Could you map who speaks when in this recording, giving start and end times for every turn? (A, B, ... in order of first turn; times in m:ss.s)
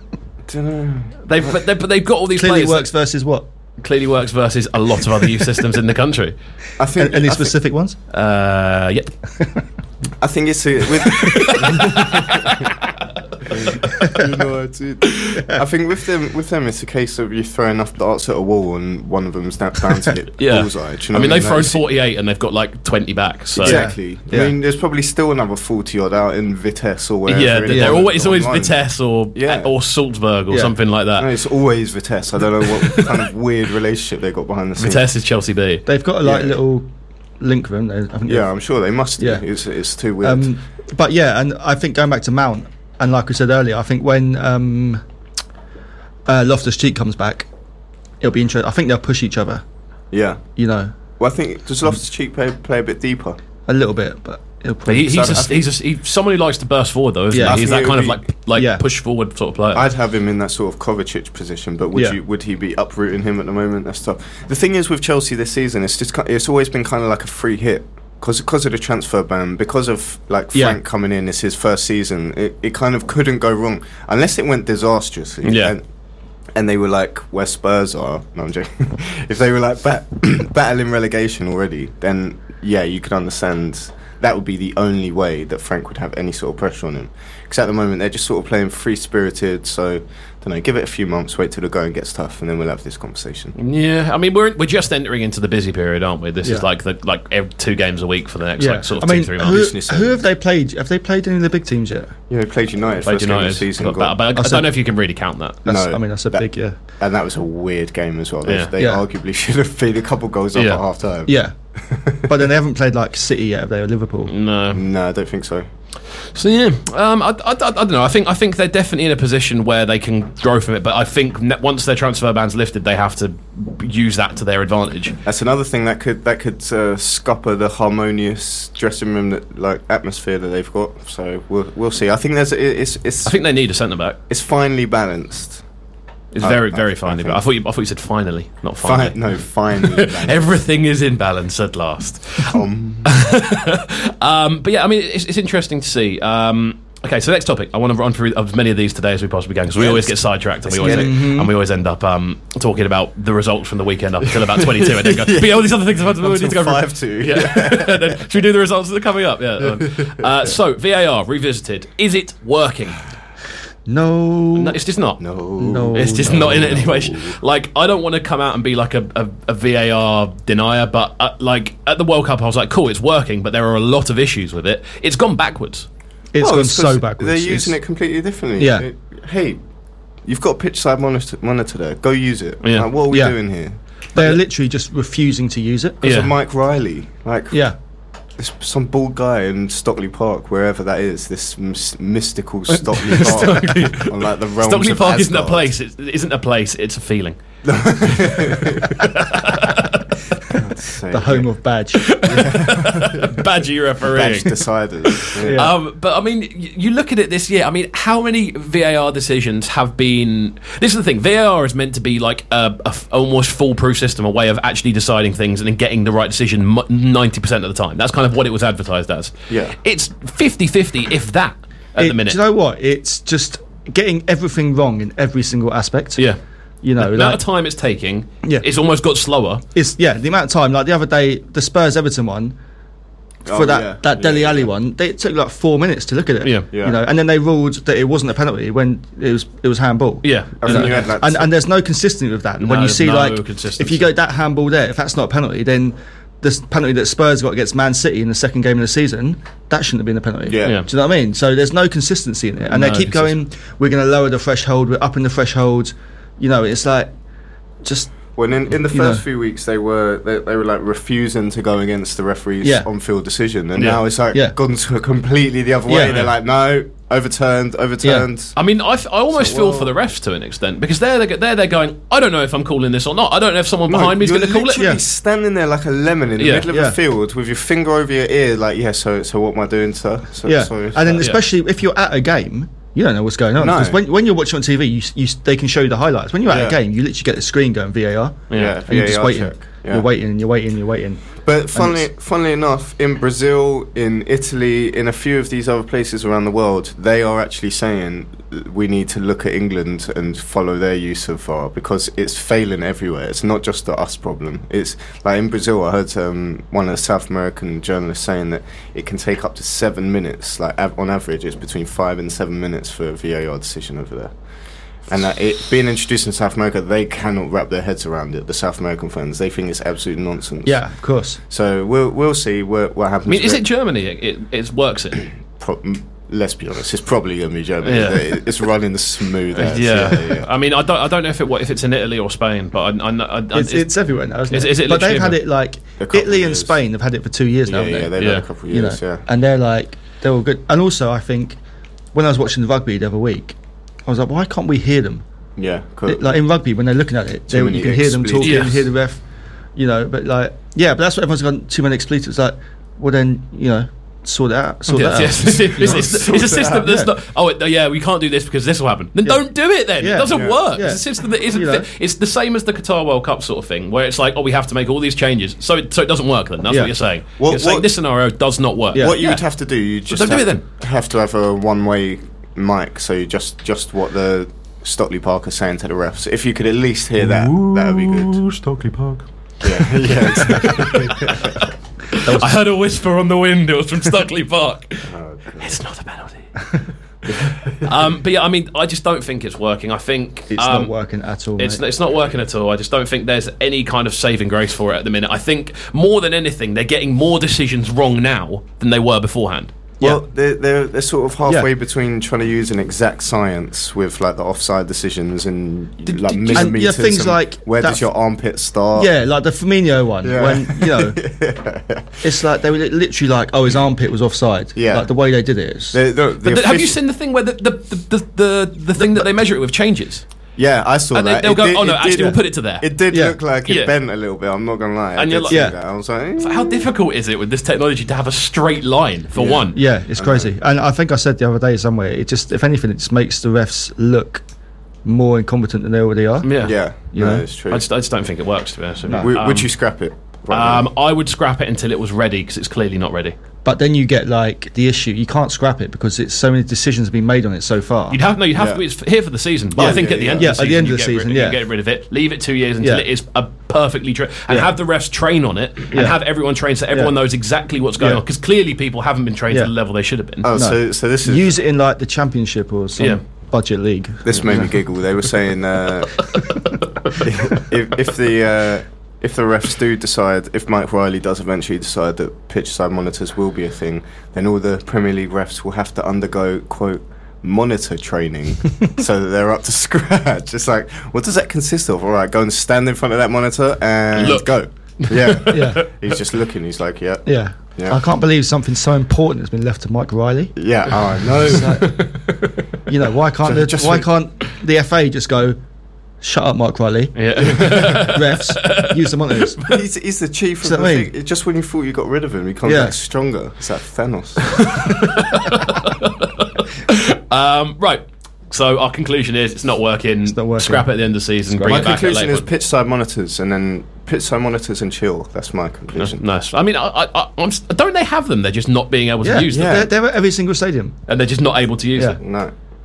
0:00.5-0:01.6 A
0:01.2-0:02.9 B
0:02.4-0:03.4 C
0:03.8-0:06.4 B
0:06.8-0:07.5 A
0:07.0-0:08.0 C
0:08.1-0:09.1 B
0:10.2-0:12.7 A
0:11.1-0:12.7 B
0:13.4-0:13.7 B
0:13.5-0:21.8 A
0:13.9-0:14.2 C
0:15.1-0:15.4 B
0:20.4-0:23.8 B
0:23.6-0:28.8 A
0:23.6-0:24.5 C
0:27.3-0:31.3 B
0:27.7-0:28.0 C
0:29.4-0:29.7 A
0:31.2-0:35.0 A
0:32.6-0:33.2 B
0:34.8-0:35.8 B
0:35.9-0:36.9 C
0:36.2-0:36.6 A
0:37.4-0:38.5 C
0:38.2-0:40.5 A
0:39.2-0:39.4 C
0:40.2-0:45.0 C
0:46.3-0:47.5 C
0:48.2-0:49.6 C
0:50.1-0:50.4 A
0:50.6-0:50.9 C
0:51.2-0:53.4 A
0:53.7-0:55.5 C
0:54.9-0:59.8 B
0:55.1-0:55.6 A
0:57.3-0:57.6 C
0:57.4-0:58.2 A
0:58.5-0:58.8 C
0:59.7-1:15.8 A
1:15.4-1:15.7 B
1:16.5-1:33.5 A
1:33.6-1:39.6 B
1:38.6-1:42.1 C
1:39.4-1:40.2 A
1:42.3-1:44.2 A
1:43.0-1:45.6 B
1:44.4-1:44.7 C
1:45.6-1:46.8 C
1:45.6-1:46.5 A
1:47.0-1:52.4 A
1:48.4-1:48.7 B
1:48.8-1:49.0 C
1:50.5-1:50.8 B
1:51.2-1:51.5 C
1:52.2-1:54.3 C
1:54.3-1:54.8 B
1:54.7-1:55.7 A
1:56.2-2:05.2 B
2:05.2-2:13.4 A
2:13.2-2:14.2 B
2:14.3-2:15.6 A
2:16.3-2:43.0 B
2:16.4-2:17.4 A
2:18.8-2:20.6 A
2:22.5-2:23.1 A
2:29.7-2:31.2 A
2:30.8-2:31.5 C
2:34.2-2:38.2 A
2:39.6-2:40.3 A
2:43.9-2:44.8 C
2:44.5-2:45.2 B
2:45.2-2:47.4 A
2:45.6-2:46.8 C
2:45.9-2:55.9 B
2:56.3-2:57.7 C
2:56.4-2:59.6 A
2:58.6-2:58.9 C
3:00.2-3:04.4 A
3:02.6-3:02.9 B
3:03.1-3:03.4 C
3:04.1-3:06.0 C
3:06.0-3:07.6 A
3:06.0-3:06.3 B
3:08.4-3:15.7 A
3:12.7-3:17.4 B
3:17.6-3:19.1 A
3:18.0-3:20.0 B
3:20.5-3:21.5 A
3:21.1-3:22.2 C
3:22.0-3:42.4 B
3:22.2-3:23.4 A
3:24.0-3:25.6 A
3:25.4-3:25.8 C
3:39.5-3:39.8 A
3:42.0-3:46.2 C
3:46.8-3:47.4 C
3:47.0-3:49.6 B
3:49.7-3:52.5 C
3:53.4-3:54.7 A
3:53.5-4:17.1 C
3:56.7-3:57.0 A
4:00.2-4:01.0 B
4:00.6-4:01.5 A
4:02.6-4:04.0 B
4:10.4-4:10.8 A
4:10.6-4:10.9 B
4:12.6-4:13.4 B
4:17.8-4:18.1 C
4:18.4-4:28.6 A
4:18.9-4:19.2 C
4:22.6-4:22.9 C
4:23.8-4:24.0 B
4:25.9-4:26.3 C
4:28.0-4:28.3 C
4:28.6-4:34.8 B
4:29.3-4:29.9 A
4:33.9-4:41.3 A
4:36.4-4:36.6 B
4:36.7-4:37.0 C
4:40.4-4:52.0 C
4:43.6-4:44.0 A
4:46.5-4:46.8 A
4:48.5-4:48.8 B
4:48.5-4:50.0 A
4:51.4-5:14.3 A
5:15.0-5:20.8 A
5:20.6-5:21.4 C
5:21.5-5:23.6 A
5:23.3-5:25.3 B
5:25.5-5:30.5 A
5:27.8-5:28.4 B
5:29.5-5:33.9 B
5:33.5-5:41.6 C
5:34.5-5:35.4 B
5:36.0-5:36.7 A
5:37.6-5:39.2 A
5:38.2-5:38.4 B
5:42.1-5:43.5 C
5:44.0-5:45.2 C
5:45.6-5:46.4 A
5:46.1-5:49.2 C
5:47.5-5:48.9 A
5:48.4-5:48.8 B
5:49.8-5:57.1 C
5:54.9-6:09.4 B
5:55.8-5:56.8 A
5:59.2-6:01.9 C
6:00.3-6:00.6 A
6:07.4-6:07.9 A
6:08.9-6:09.4 C
6:08.9-6:18.4 A
6:10.1-6:10.6 B
6:17.2-6:26.6 B
6:19.6-6:21.7 A
6:22.2-6:22.6 C
6:25.1-6:25.8 A
6:27.3-6:30.9 B
6:27.4-6:27.9 A
6:30.5-6:31.8 C
6:31.6-6:39.8 B
6:40.0-6:49.1 A
6:46.0-6:46.8 B
6:46.5-6:48.0 C
6:49.0-6:51.2 C
6:50.2-6:52.3 A
6:52.2-6:56.0 C
6:54.8-6:55.1 A
6:55.9-6:57.0 A
6:56.4-7:00.2 B
6:59.0-6:59.2 C
7:00.6-7:06.9 A
7:01.1-7:02.9 B
7:03.1-7:03.4 C
7:03.6-7:03.9 B
7:05.2-7:05.7 B
7:05.5-7:05.8 C
7:06.4-7:09.8 B
7:09.4-7:10.5 A
7:09.7-7:14.4 C
7:15.0-7:16.5 C
7:16.4-7:16.8 B
7:16.6-7:17.8 A
7:17.1-7:17.4 C
7:17.7-7:19.7 B
7:19.2-7:20.9 A
7:20.5-7:23.4 B
7:23.6-7:28.2 C
7:28.1-7:40.5 B
7:28.5-7:28.8 A
7:29.8-7:30.5 A
7:29.8-7:31.6 C
7:35.9-7:36.2 C
7:40.4-7:41.5 A
7:40.5-7:44.8 C
7:44.2-7:46.3 A
7:46.3-7:47.3 B
7:47.2-8:08.0 A
8:04.2-8:04.5 B
8:05.0-8:05.9 B
8:05.5-8:05.8 C
8:07.2-8:10.6 C
8:10.6-8:11.9 A
8:11.4-8:12.1 C
8:11.5-8:12.6 B
8:12.8-8:15.6 C
8:13.4-8:14.1 A
8:16.2-8:19.6 C
8:17.1-8:19.7 B
8:17.5-8:17.9 A
8:19.6-8:24.8 A
8:20.6-8:21.1 C
8:22.6-8:23.0 C
8:24.5-8:32.5 B
8:30.3-8:30.9 C
8:31.5-8:31.8 C
8:31.6-8:36.2 A
8:36.0-8:39.8 B
8:39.2-8:41.0 C
8:39.5-8:39.9 A
8:41.1-8:42.2 B
8:42.2-8:42.5 A